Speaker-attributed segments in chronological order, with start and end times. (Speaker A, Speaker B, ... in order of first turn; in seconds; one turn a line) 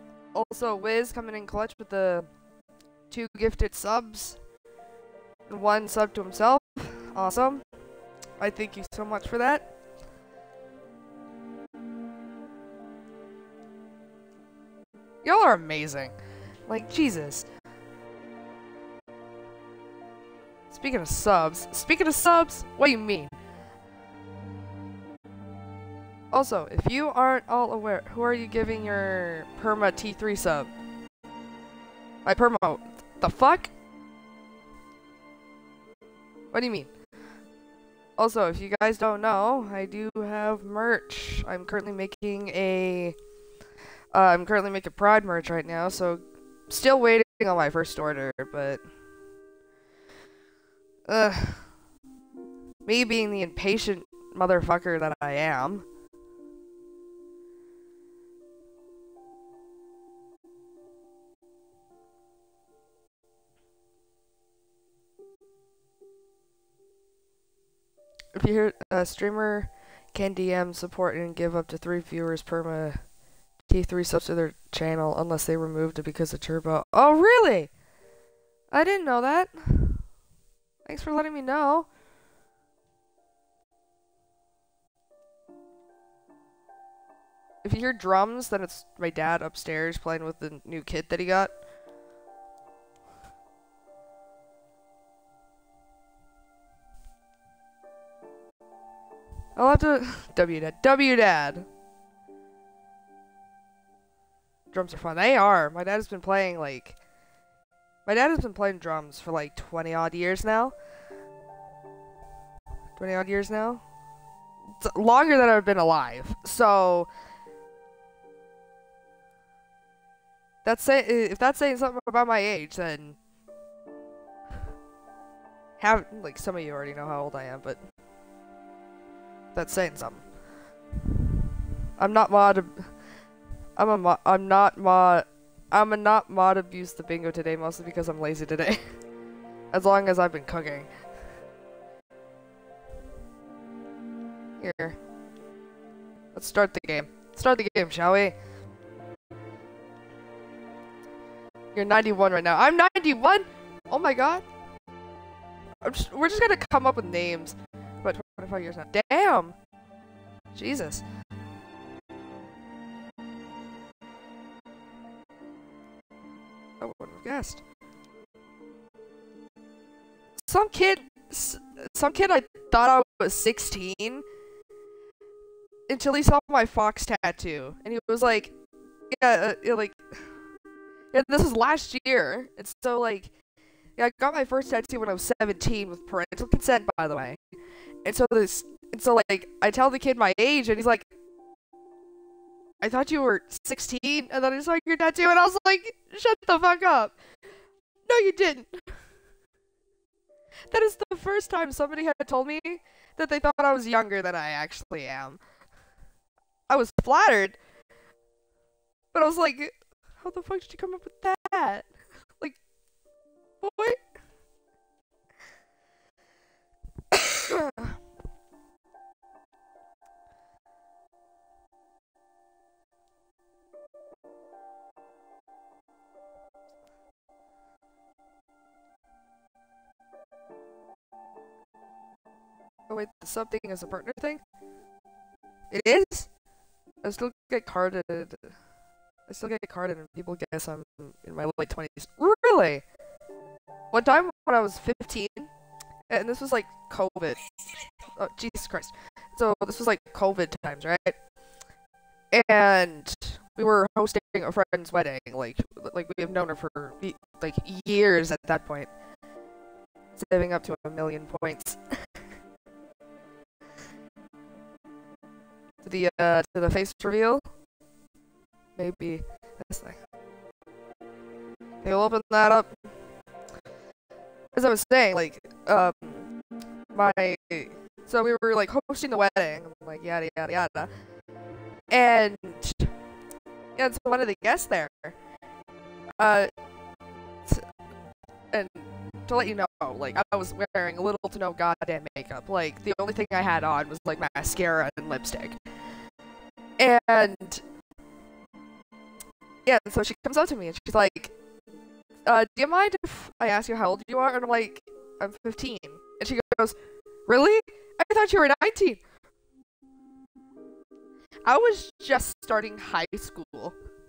Speaker A: 0.3-2.3
Speaker A: 3.1-4.4
Speaker A: 5.5-7.6
Speaker A: 8.4-9.7
Speaker A: 15.2-16.1
Speaker A: 16.7-17.5
Speaker A: 20.7-23.4
Speaker A: 26.3-30.7
Speaker A: 32.2-33.7
Speaker A: 36.5-36.9
Speaker A: 38.2-43.1
Speaker A: 44.1-48.8
Speaker A: 51.1-51.7
Speaker A: 52.9-55.9
Speaker A: 68.3-73.0
Speaker A: 73.7-77.7
Speaker A: 78.7-80.0
Speaker A: 80.9-81.9
Speaker A: 87.6-91.5
Speaker A: 99.6-101.7
Speaker A: 104.7-107.0
Speaker A: 108.1-110.8
Speaker A: 113.0-113.8
Speaker A: 114.8-117.1
Speaker A: 120.6-123.2
Speaker A: 125.8-127.8
Speaker A: 129.6-130.2
Speaker A: 132.0-132.9
Speaker A: 133.8-138.8
Speaker A: 139.7-140.9
Speaker A: 144.6-145.0
Speaker A: 146.3-148.4
Speaker A: 151.7-154.4
Speaker A: 155.8-159.6
Speaker A: 160.5-161.0
Speaker A: 166.8-167.6
Speaker A: 170.4-174.2
Speaker A: 175.9-178.5
Speaker A: 179.1-180.0
Speaker A: 181.1-183.3
Speaker A: 184.0-187.4
Speaker A: 188.1-191.1
Speaker A: 192.8-197.2
Speaker A: 198.1-198.7
Speaker A: 200.7-205.4
Speaker A: 206.7-207.6
Speaker A: 209.1-211.9
Speaker A: 213.6-214.0
Speaker A: 217.1-218.0
Speaker A: 232.9-234.4
Speaker A: 235.7-236.3
Speaker A: 237.0-238.5
Speaker A: 239.3-242.8
Speaker A: 243.9-245.5
Speaker A: 246.1-247.4
Speaker A: 248.2-251.2
Speaker A: 252.3-258.9
Speaker A: 260.2-261.9
Speaker A: 265.8-267.5
Speaker A: 268.8-270.0
Speaker A: 271.8-272.7
Speaker A: 274.5-276.3
Speaker A: 276.9-280.9
Speaker A: 281.9-282.9
Speaker A: 283.8-285.2
Speaker A: 286.2-286.5
Speaker A: 288.5-295.6
Speaker A: 296.8-297.6
Speaker A: 299.6-301.3
Speaker A: 302.3-306.8
Speaker A: 307.3-309.0
Speaker A: 311.4-313.8